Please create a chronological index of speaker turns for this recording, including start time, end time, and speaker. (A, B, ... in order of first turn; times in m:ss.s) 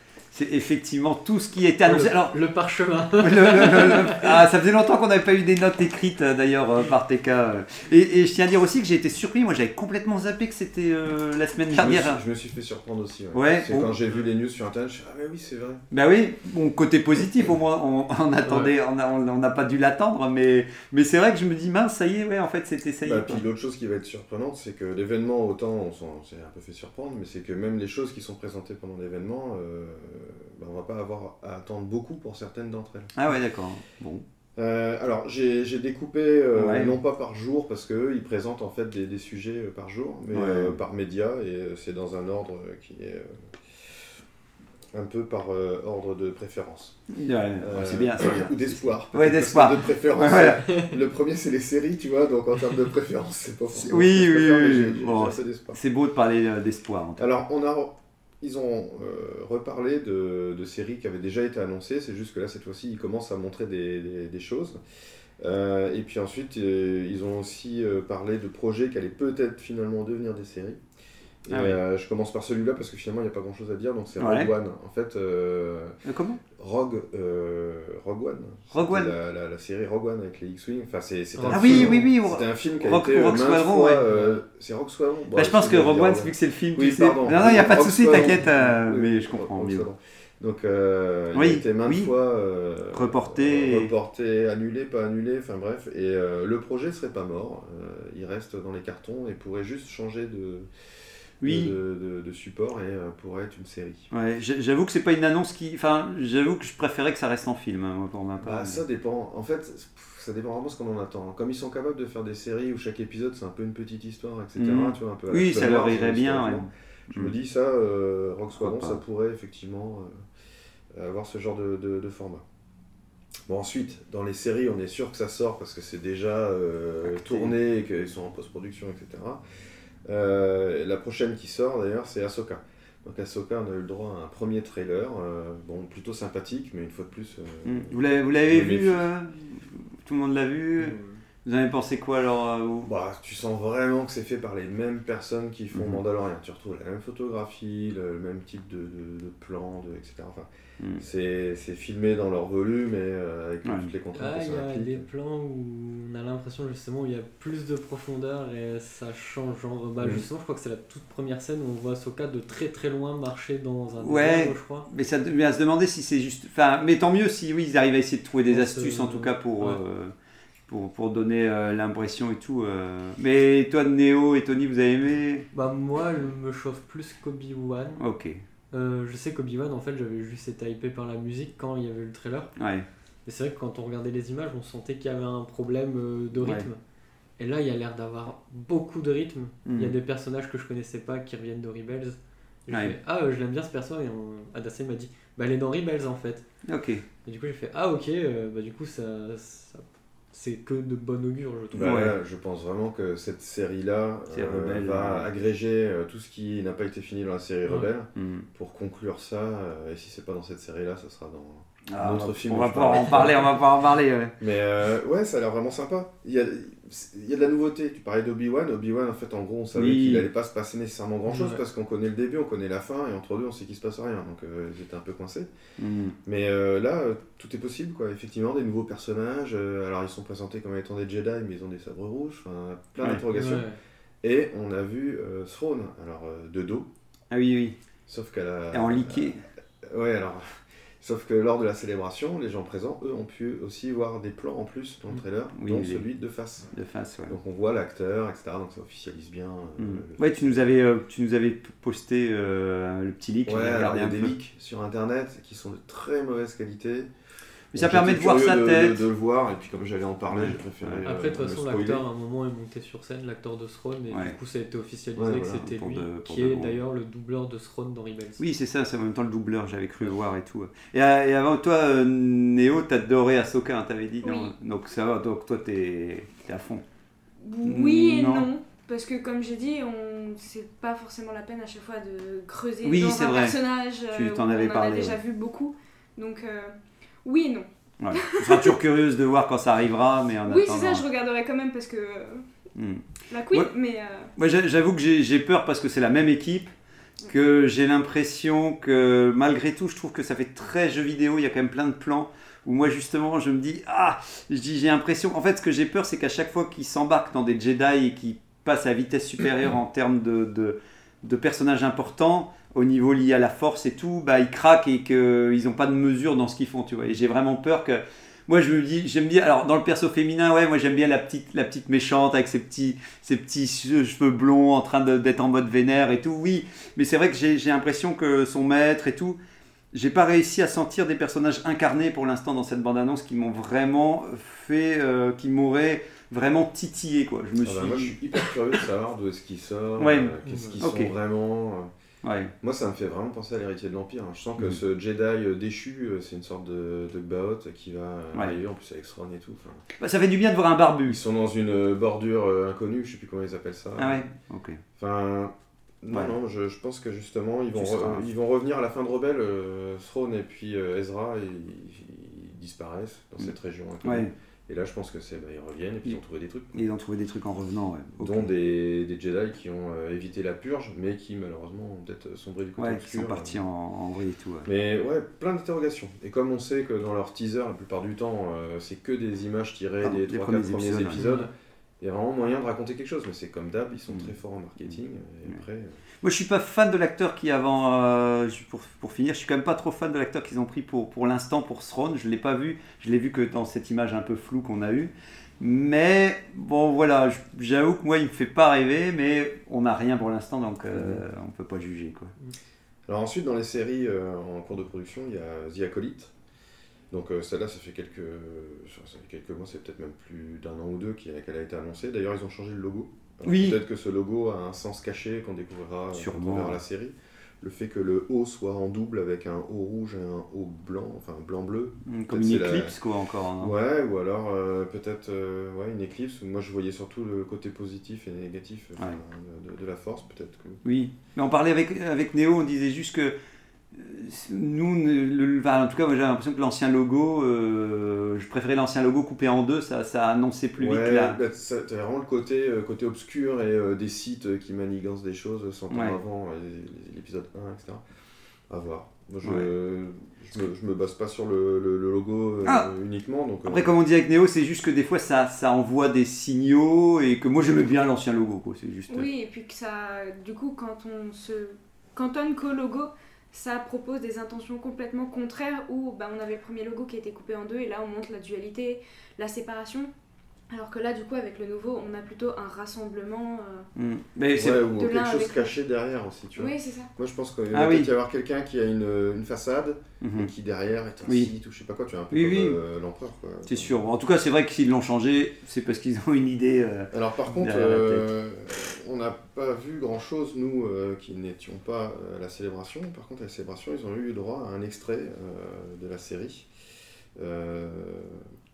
0:00.3-0:02.4 A
0:01.8-0:04.4 B
0:03.2-0:12.2 A
0:11.7-0:15.8 C
0:13.3-0:13.9 A
0:15.9-0:23.4 A
0:18.4-0:18.7 B
0:23.0-0:33.1 C
0:33.2-0:34.2 A
0:34.6-0:43.5 C
0:36.5-0:37.0 A
0:40.3-0:40.8 A
0:44.9-0:47.0 C
0:47.1-0:50.6 A
0:47.6-0:55.8 C
0:53.8-0:57.3 A
0:57.2-1:04.8 C
1:05.4-1:10.8 C
1:11.4-1:16.0 C
1:11.5-1:11.8 A
1:14.2-1:14.5 A
1:16.0-1:16.4 A
1:16.6-1:40.7 C
1:18.7-1:19.1 A
1:21.4-1:22.1 B
1:21.5-1:24.0 A
1:24.1-1:24.4 B
1:25.3-1:29.9 A
1:31.3-1:32.1 A
1:32.9-1:33.9 A
1:41.4-1:41.7 A
1:41.4-1:44.1 C
1:44.1-1:48.8 A
1:48.4-2:00.2 C
1:54.6-1:57.3 A
1:58.6-1:59.0 A
2:00.9-2:02.4 C
2:03.5-2:09.4 C
2:07.0-2:07.5 A
2:10.0-2:19.0 C
2:17.6-2:22.9 A
2:20.8-2:21.2 B
2:22.8-2:35.0 C
2:25.7-2:26.0 A
2:33.6-2:33.9 A
2:34.1-2:44.9 B
2:44.0-2:50.1 A
2:48.5-2:49.8 B
2:50.7-2:55.4 A
2:55.5-2:58.0 B
2:58.0-2:58.4 A
2:58.7-3:02.5 B
3:02.6-3:02.8 A
3:03.2-3:06.8 B
3:06.4-3:06.7 A
3:07.4-3:16.4 B
3:09.6-3:09.9 A
3:16.6-3:17.0 A
3:17.2-3:21.9 B
3:21.7-3:33.6 C
3:21.8-3:22.2 A
3:24.3-3:25.3 A
3:28.2-3:28.5 A
3:31.9-3:34.3 A
3:34.4-3:45.5 C
3:39.7-3:40.3 A
3:41.3-3:41.6 B
3:45.8-3:46.2 A
3:46.2-3:53.7 C
3:53.3-3:53.8 B
3:54.2-3:56.9 C
3:57.3-3:57.8 A
3:58.1-4:06.7 C
3:58.7-3:59.4 A
4:05.5-4:06.0 A
4:06.7-4:07.3 A
4:07.3-4:10.6 C
4:09.8-4:14.3 A
4:13.4-4:17.1 C
4:17.7-4:19.0 A
4:17.7-4:22.0 C
4:20.3-4:21.0 A
4:21.0-4:28.4 B
4:24.1-4:24.4 A
4:25.2-4:25.7 C
4:25.6-4:26.8 A
4:28.4-4:36.8 A
4:34.2-4:34.5 D
4:37.4-4:48.7 D
4:37.6-4:38.5 A
4:42.8-4:43.6 A
4:44.1-4:45.2 A
4:48.0-4:51.0 A
4:50.5-4:52.5 D
4:52.8-4:53.7 A
4:53.3-4:54.3 D
4:54.4-4:56.7 A
4:57.3-5:29.4 A
5:29.9-5:38.5 A
5:37.6-5:41.9 C
5:40.0-5:41.1 A
5:40.5-5:40.8 B
5:42.2-5:42.5 A
5:42.6-5:49.8 C
5:50.0-5:51.2 A
5:51.0-5:54.2 C
5:54.0-5:54.8 A
5:55.0-6:06.9 C
5:57.7-5:58.2 A
6:04.0-6:04.3 A
6:06.7-6:08.5 A
6:08.2-6:13.6 C
6:12.8-6:14.7 A
6:14.6-6:21.5 C
6:20.0-6:21.3 A
6:21.1-6:21.5 B
6:22.0-6:26.0 C
6:26.2-6:42.3 A
6:40.9-6:41.2 C
6:43.1-6:46.3 C
6:47.1-7:03.0 C
6:53.4-6:53.8 A
6:56.1-6:56.8 A
7:02.0-7:03.8 A
7:03.6-7:10.8 C
7:10.8-7:13.3 A
7:13.9-7:21.4 A
7:20.8-7:28.0 C
7:25.9-7:26.2 A
7:28.7-7:33.9 C
7:29.4-7:29.7 A
7:33.7-7:39.3 A
7:39.1-7:50.1 D
7:50.7-7:53.9 D
7:54.0-7:54.8 A
7:54.5-8:04.0 C
7:54.9-7:55.7 D
7:56.6-7:57.1 D
7:57.7-7:58.1 A
8:00.2-8:00.5 A
8:01.2-8:01.5 A
8:02.3-8:02.8 A
8:03.6-8:08.3 A
8:07.1-8:16.7 C
8:17.4-8:18.4 C